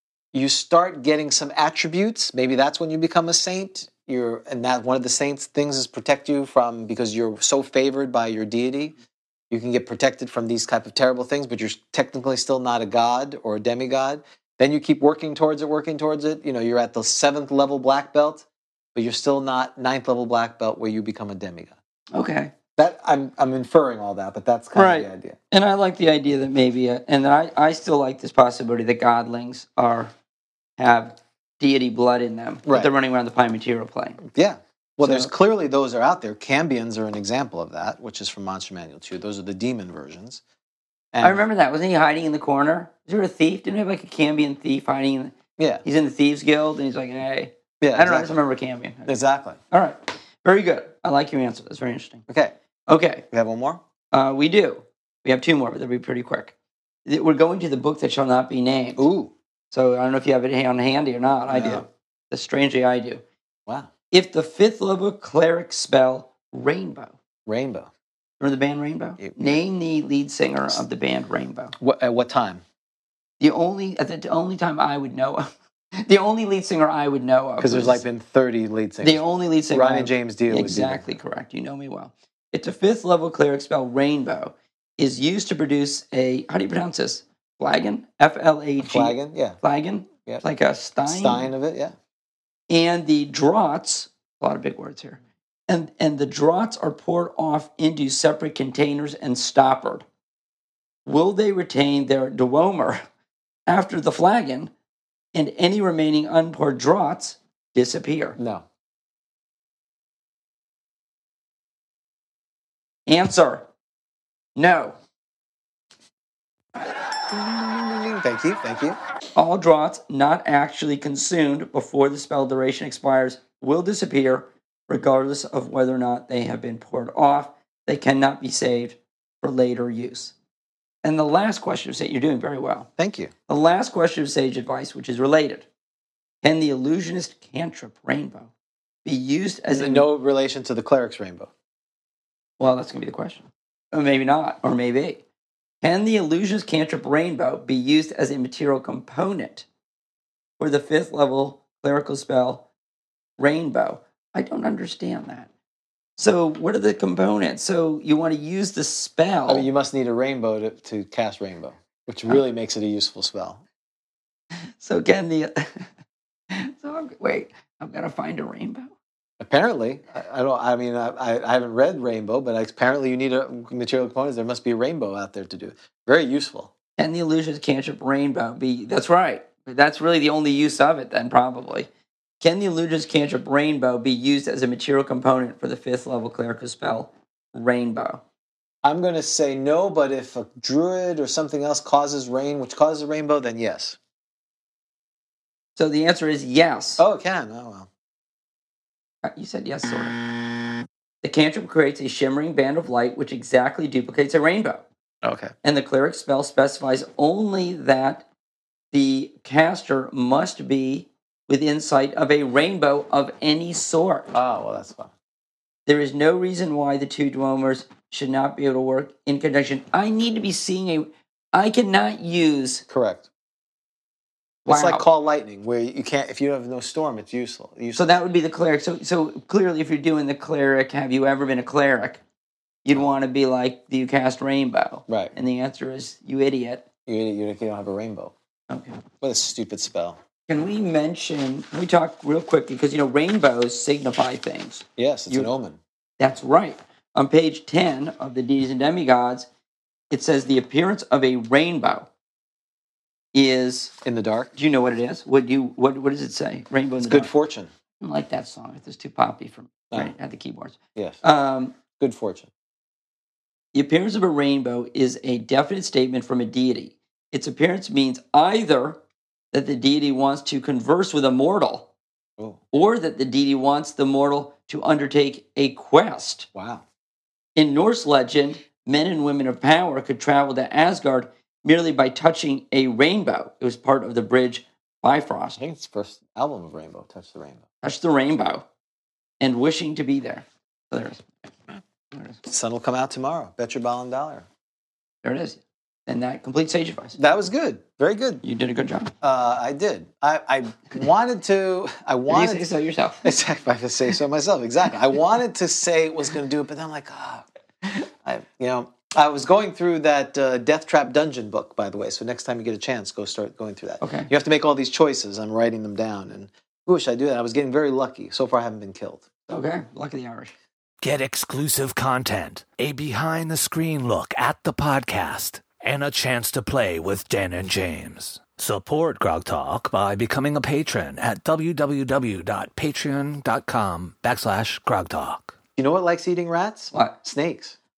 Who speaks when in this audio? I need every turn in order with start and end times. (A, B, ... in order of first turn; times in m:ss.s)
0:00.3-0:09.0 A
0:09.5-0:21.7 A
0:22.1-0:22.5 B
0:22.8-0:25.4 A
0:24.7-0:30.1 B
0:30.8-0:34.2 B
0:32.6-0:32.9 A
0:34.2-0:40.4 A
0:35.0-0:35.3 B
0:41.1-0:41.4 A
0:41.2-0:49.1 B
0:45.6-0:45.8 A
0:47.8-0:48.4 A
0:49.0-0:49.6 A
0:49.7-0:52.2 B
0:52.3-0:52.5 A
0:52.9-0:53.2 B
0:53.3-0:53.8 A
0:54.1-0:56.5 B
0:57.0-0:59.1 B
0:59.0-0:59.3 A
0:59.7-1:03.2 B
1:01.5-1:01.8 A
1:04.1-1:07.1 B
1:07.5-1:07.9 A
1:08.4-1:11.7 B
1:09.2-1:09.6 A
1:11.8-1:12.6 A
1:13.4-1:18.0 B
1:17.6-1:21.1 A
1:19.0-1:31.5 B
1:28.8-1:29.6 A
1:31.0-1:31.9 A
1:32.7-1:40.0 B
1:41.0-1:43.0 B
1:43.7-1:44.7 B
1:45.3-1:48.4 B
1:48.4-1:48.6 A
1:53.1-1:53.7 B
1:54.6-1:55.0 B
1:57.3-1:59.0 A
1:59.4-2:10.3 B
2:11.0-2:12.9 B
2:13.0-2:13.3 A
2:13.5-2:15.6 B
2:16.4-2:18.5 B
2:19.0-2:20.1 B
2:19.7-2:21.5 A
2:22.6-2:25.2 B
2:25.8-2:29.6 B
2:30.6-2:32.6 B
2:33.4-2:35.5 B
2:36.2-2:39.7 B
2:39.5-2:43.6 A
2:44.8-2:45.9 B
2:46.5-2:48.9 B
2:49.4-2:56.7 A
2:57.0-3:01.9 B
3:02.4-3:08.2 B
3:08.8-3:14.0 A
3:15.8-3:17.0 B
3:17.0-3:17.9 A
3:19.2-3:20.2 B
3:21.2-3:24.8 B
3:25.2-3:25.5 A
3:25.6-3:28.2 B
3:28.9-3:34.3 B
3:34.3-3:35.1 A
3:35.8-3:42.8 B
3:42.9-3:43.3 A
3:44.6-3:45.0 B
3:44.6-3:48.2 A
3:47.9-3:52.2 B
3:52.8-3:56.8 B
3:55.1-3:55.3 A
3:57.1-3:58.3 A
3:58.7-3:59.0 B
3:59.2-4:00.2 A
4:00.5-4:05.5 B
4:05.0-4:05.8 A
4:06.2-4:09.5 B
4:10.1-4:12.1 B
4:13.3-4:13.9 B
4:14.0-4:14.5 A
4:14.5-4:17.3 B
4:17.0-4:17.7 A
4:18.0-4:21.8 B
4:21.0-4:21.2 A
4:22.0-4:22.5 A
4:23.7-4:29.0 B
4:29.5-4:31.9 B
4:32.7-4:36.5 B
4:36.5-4:36.8 A
4:37.6-4:45.6 B
4:45.6-4:47.6 A
4:47.8-4:48.6 B
4:49.4-4:52.4 B
4:52.4-4:54.4 A
4:55.2-4:57.2 B
4:57.2-4:58.4 A
4:58.4-4:59.1 B
4:59.2-5:02.7 A
5:02.3-5:03.3 B
5:03.2-5:19.2 A
5:14.0-5:14.3 B
5:19.5-5:20.5 B
5:21.0-5:35.6 C
5:35.8-5:37.8 A